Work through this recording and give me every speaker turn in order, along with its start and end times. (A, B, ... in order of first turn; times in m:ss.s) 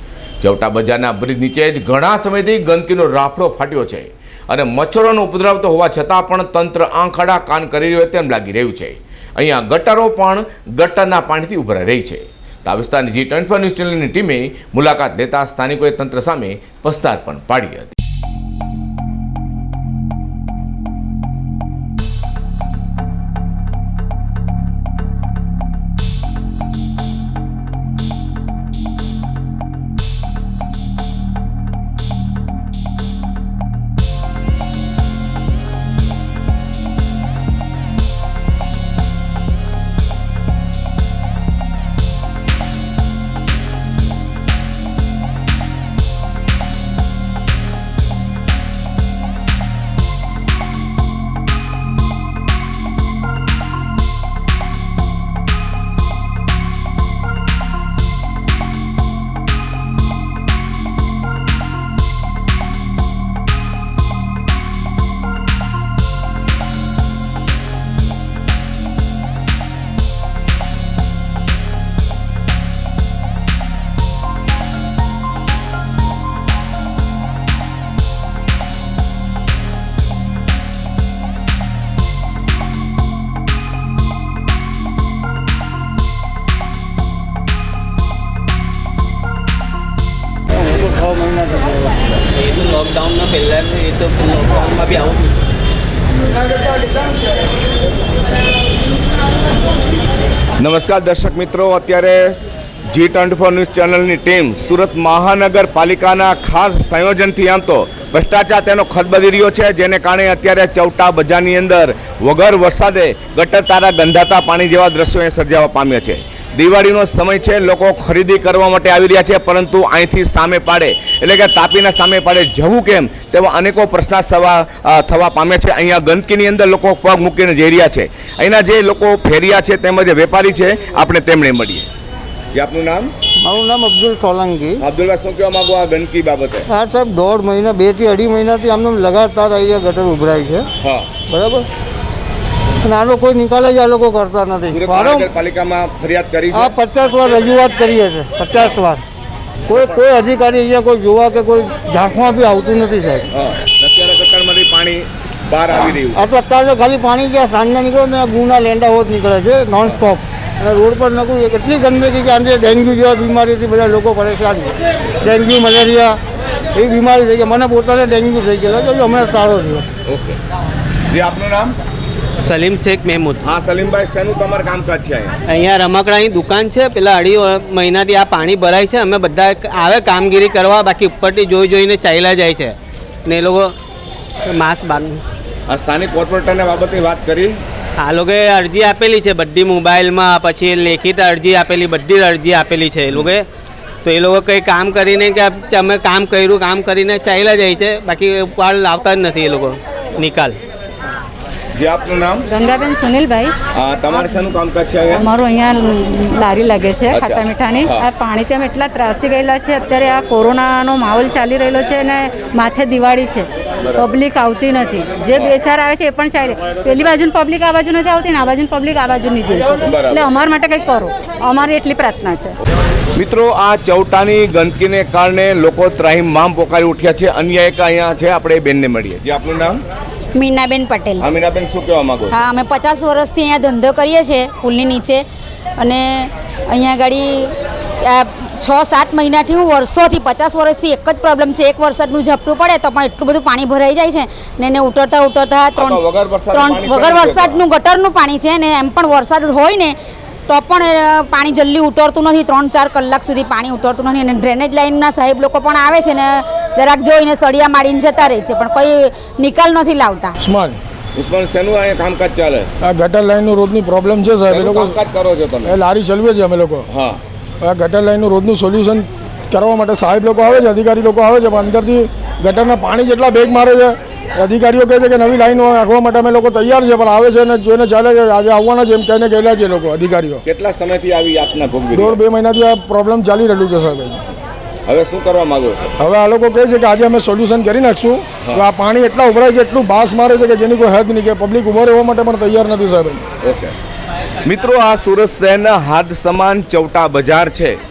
0:00.4-0:17.9 A
1:40.6-1:42.4 A
1:42.9-2:11.9 A
2:12.5-2:13.1 A
2:13.4-2:14.8 B
2:14.8-2:16.7 A
2:16.7-2:20.7 B
2:20.8-2:21.1 A
2:21.3-2:21.7 B
2:22.8-2:25.3 B
2:24.7-2:26.7 A
2:26.5-2:29.0 B
2:29.7-2:33.3 B
2:33.3-2:36.2 A
2:36.1-2:46.2 B
2:46.7-2:49.9 B
2:50.1-2:50.4 A
2:51.1-2:51.8 A
2:52.4-2:53.4 C
2:53.4-2:55.3 A
2:55.5-3:02.8 C
3:03.3-3:03.7 C
3:04.5-3:05.2 C
3:05.7-3:07.6 A
3:08.0-3:13.4 C
3:14.0-3:20.5 C
3:21.8-3:22.5 A
3:22.5-3:23.5 D
3:23.8-3:25.3 A
3:24.1-3:24.5 D
3:25.1-3:42.6 D
3:27.1-3:28.1 A
3:39.8-3:40.3 A
3:43.2-3:49.8 A
3:50.4-3:51.3 E
3:51.2-3:52.3 A
3:52.3-3:55.2 E
3:55.8-4:06.0 E
4:05.8-4:07.6 A
4:06.5-4:10.0 E
4:10.5-4:20.4 E
4:20.4-4:20.8 F
4:21.2-4:22.7 A
4:22.8-4:25.0 F
4:24.5-4:25.8 A
4:25.6-4:26.9 F
4:26.9-4:27.2 A
4:27.6-4:40.4 F
4:40.4-4:42.2 A
4:41.9-4:44.2 F
4:44.9-4:45.9 A
4:46.0-4:53.2 F
4:53.4-4:53.7 A
4:54.5-4:57.8 A